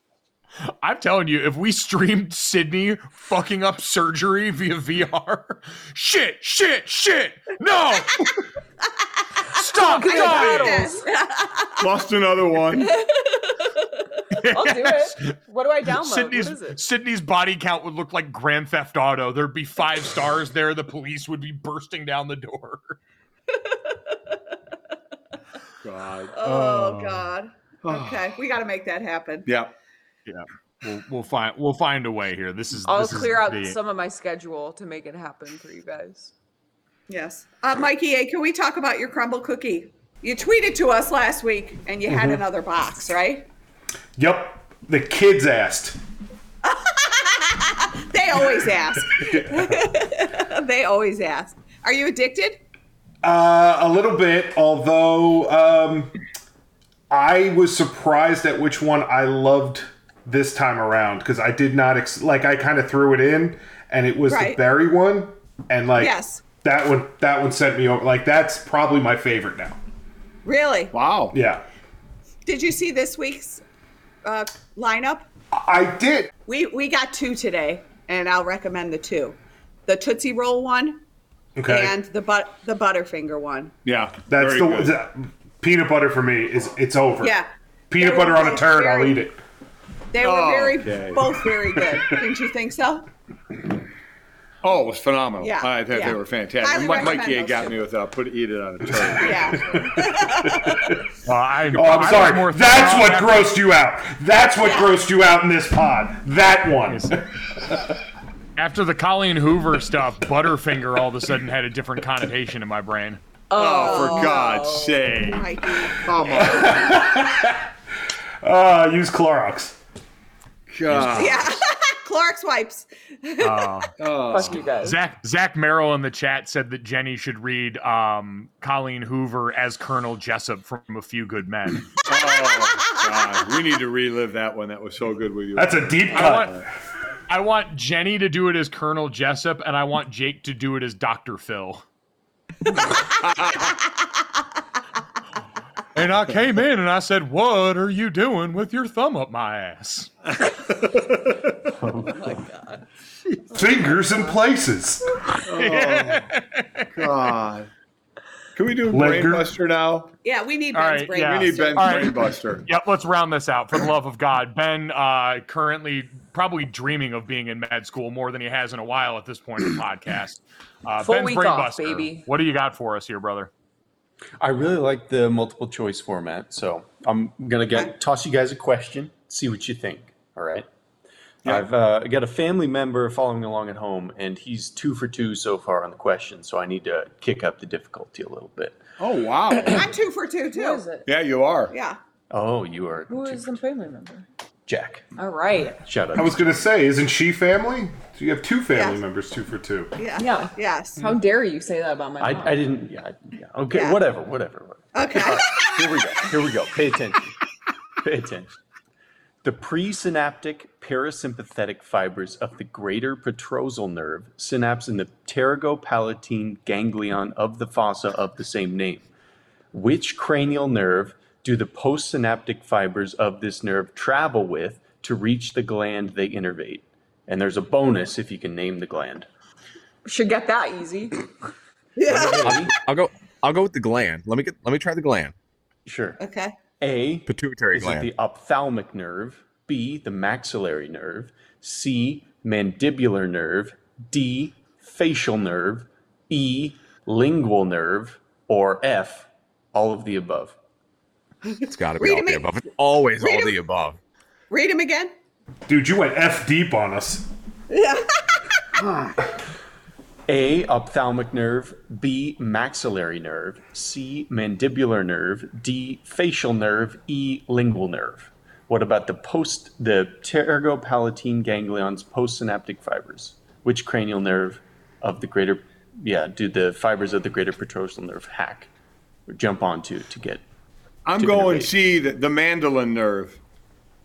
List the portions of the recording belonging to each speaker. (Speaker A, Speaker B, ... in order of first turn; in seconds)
Speaker A: 0.8-8.3, 9.5-11.0, 14.3-23.0, 26.4-27.3, 30.2-33.8, 101.2-103.6, 106.9-107.2, 108.5-113.2, 120.9-121.3, 123.4-131.9, 136.1-136.5, 137.3-141.8, 145.9-150.1, 155.5-157.0, 160.7-162.1, 162.6-173.5
Speaker B: 9.7-11.1, 14.4-16.8, 32.8-36.3, 113.5-115.0, 124.3-125.0, 171.0-172.3, 190.5-191.1, 193.1-194.2, 195.2-195.8, 200.2-202.7, 230.0-231.2
Speaker C: 9.8-11.8, 26.3-29.5, 37.1-43.5, 46.6-52.6, 64.3-64.6, 65.9-66.4, 70.4-70.9, 72.4-73.6, 74.2-75.3, 76.5-81.0, 81.7-83.7, 87.2-89.2, 90.1-93.1, 95.4-97.8, 99.2-101.0, 104.6-105.0, 113.6-116.1, 121.1-123.8, 152.1-152.8, 160.2-162.2, 189.6-190.9, 191.7-192.0, 198.7-199.0, 200.0-201.1, 203.7-204.0, 204.9-205.8, 231.9-232.6, 236.2-236.6, 252.0-252.5, 253.2-253.5, 254.5-255.1, 257.7-258.6
Speaker D: 11.8-12.9, 25.8-26.3, 27.8-28.2, 29.4-29.7, 70.9-71.3, 83.8-84.9, 90.2-91.3, 94.6-99.8, 113.5-117.0, 120.7-121.5, 124.0-124.7, 132.1-136.4, 150.5-151.2, 155.4-156.3, 156.9-157.7, 158.6-160.1, 161.2-162.6, 189.0-189.9, 191.1-191.7, 281.0-283.4
Speaker E: 42.1-42.4, 44.2-46.0, 49.2-49.7, 53.2-56.1, 57.1-69.8, 71.3-71.6, 75.5-76.3, 81.6-81.9, 84.3-87.3, 87.9-89.4, 99.8-101.0, 101.7-107.8, 116.4-117.7, 118.4-119.8, 135.6-136.6, 153.5-155.1, 158.9-159.5, 196.1-199.9, 255.7-257.2
Speaker F: 151.8-152.3, 174.4-180.7, 181.4-188.8, 192.3-193.6, 194.7-195.1, 195.8-196.4, 202.2-207.3, 208.0-208.5, 209.4-219.1, 219.7-229.3, 232.1-232.7, 235.8-236.2, 236.8-250.6, 260.3-278.7, 279.3-280.4, 281.2-281.7
Speaker G: 232.4-235.3, 237.3-238.1, 251.6-254.0